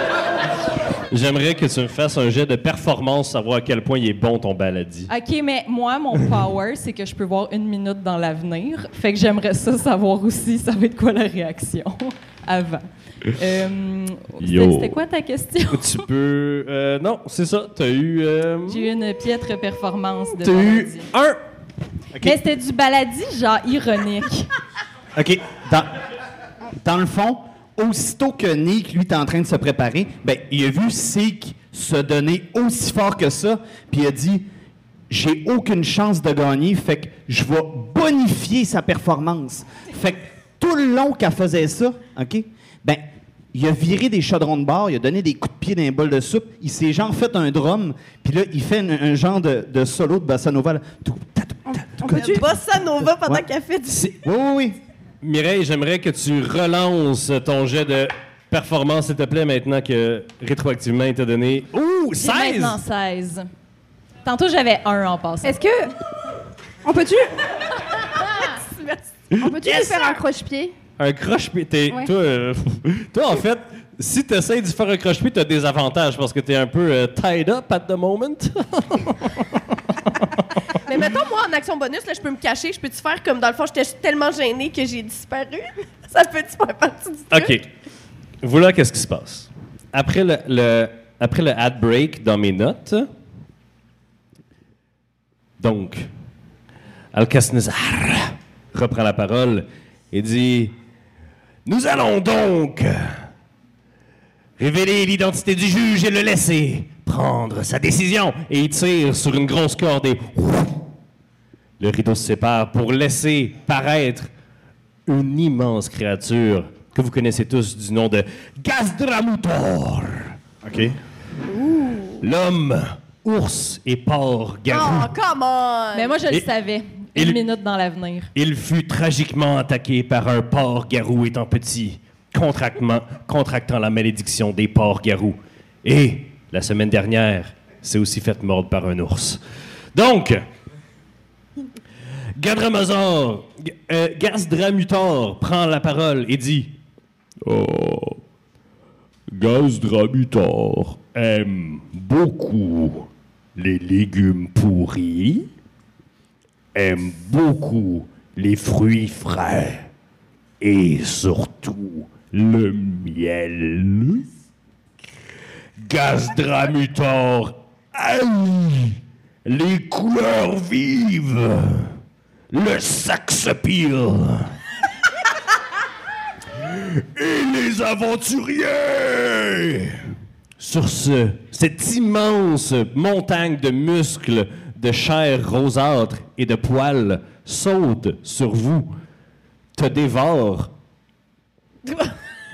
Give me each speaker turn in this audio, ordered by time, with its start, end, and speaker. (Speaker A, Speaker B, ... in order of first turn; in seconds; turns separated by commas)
Speaker A: 1.1-5.1, Speaker B: 5.1-16.0, Speaker A: 14.4-15.0, Speaker A: 15.7-18.9, Speaker B: 18.7-21.1, Speaker A: 20.4-21.4, Speaker B: 22.2-24.5, Speaker C: 25.1-25.9, Speaker C: 26.7-34.5, Speaker C: 35.1-52.3, Speaker D: 51.7-52.5, Speaker E: 52.1-54.1, Speaker C: 54.2-54.8, Speaker A: 55.2-62.8, Speaker B: 62.2-63.5, Speaker B: 64.2-65.6, Speaker D: 65.4-65.9, Speaker D: 66.8-67.4, Speaker E: 68.4-69.0, Speaker D: 69.3-70.7, Speaker A: 69.3-70.2, Speaker A: 71.0-80.6, Speaker E: 80.8-87.6, Speaker A: 87.3-87.7, Speaker A: 88.4-93.1, Speaker A: 95.6-96.1, Speaker A: 97.1-100.7, Speaker A: 101.6-103.2, Speaker A: 104.6-110.9, Speaker A: 111.8-114.3, Speaker A: 115.1-120.4, Speaker C: 120.6-121.0, Speaker E: 121.5-122.2, Speaker A: 122.2-125.1, Speaker E: 124.7-126.2, Speaker B: 125.9-128.3, Speaker A: 127.1-127.4, Speaker A: 128.3-139.4, Speaker A: 139.9-140.4, Speaker A: 142.4-146.8, Speaker A: 147.4-148.2, Speaker A: 149.3-155.5, Speaker A: 156.7-159.9, Speaker A: 160.6-164.3, Speaker A: 165.8-171.9, Speaker A: 172.5-174.6, Speaker A: 176.6-180.1, Speaker A: 180.6-189.0, Speaker A: 189.8-190.7, Speaker E: 191.9-192.1